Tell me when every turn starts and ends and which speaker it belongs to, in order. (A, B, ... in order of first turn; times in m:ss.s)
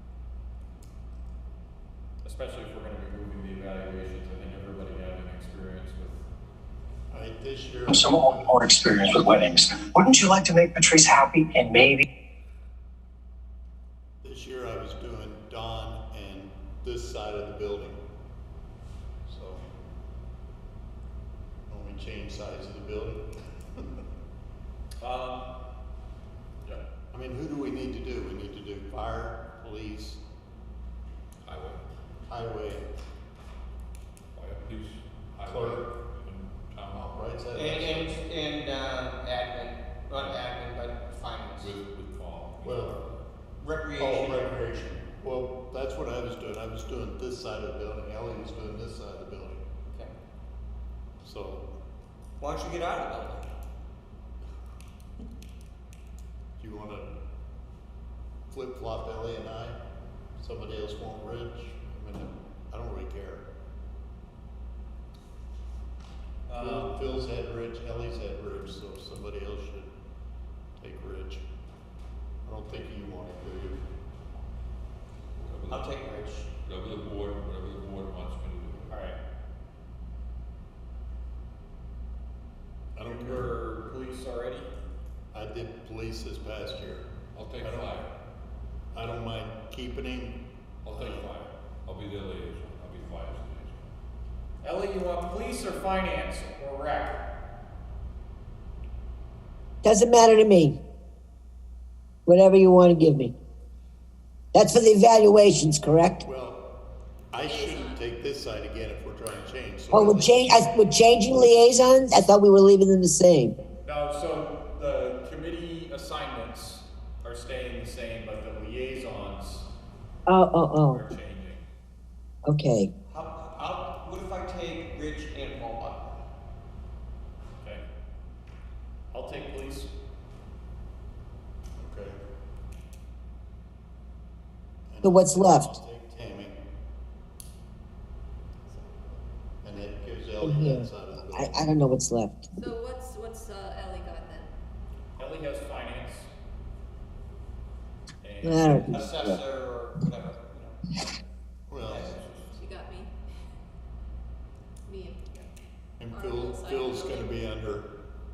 0:02.2-0:06.3 A
0:07.1-0:09.2 B
0:07.9-0:12.0 C
0:14.2-0:18.0 B
0:19.3-0:19.6 B
0:21.7-0:23.3 B
0:25.0-0:25.5 A
0:27.1-0:30.2 B
0:31.4-0:31.8 D
0:32.3-0:32.8 B
0:34.3-0:37.4 D
0:35.5-0:35.9 B
0:37.1-0:38.3 B
0:37.5-0:41.7 E
0:40.2-0:40.4 D
0:41.6-0:43.0 D
0:42.6-0:43.0 B
0:43.6-0:44.5 E
0:44.0-0:49.6 B
0:49.9-0:50.2 E
0:51.2-0:51.7 B
0:52.4-0:53.6 E
0:56.6-0:57.1 B
0:58.5-0:59.8 B
1:00.4-1:03.4 B
1:06.6-1:09.9 B
1:10.8-1:11.4 B
1:12.4-1:13.9 B
1:15.4-1:19.0 D
1:15.7-1:16.5 E
1:18.9-1:19.2 A
1:23.0-1:23.6 B
1:23.0-1:24.7 A
1:25.3-1:28.0 B
1:27.3-1:28.1 D
1:28.9-1:31.3 B
1:30.8-1:33.9 D
1:34.6-1:37.3 A
1:39.8-1:40.8 F
1:42.3-1:43.3 F
1:44.5-1:46.2 F
1:46.2-1:46.6 B
1:47.3-1:50.6 B
1:47.4-1:48.0 G
1:49.9-1:53.6 F
1:53.8-1:59.7 A
2:00.3-2:01.0 F
2:00.8-2:01.6 A
2:02.5-2:02.9 F
2:03.1-2:06.2 E
2:09.1-2:09.9 A
2:11.8-2:12.2 B
2:14.9-2:16.6 B
2:15.0-2:15.7 F
2:18.7-2:19.2 G
2:19.6-2:21.7 B
2:20.4-2:22.5 F
2:22.6-2:24.5 G
2:25.2-2:26.3 A
2:28.2-2:29.0 A
2:28.4-2:29.4 F
2:28.9-2:30.8 E
2:29.0-2:29.3 C
2:31.7-2:32.2 B
2:31.8-2:32.1 E
2:31.9-2:32.6 D
2:32.5-2:33.1 G
2:34.9-2:35.5 G
2:36.0-2:37.9 B
2:36.1-2:37.4 G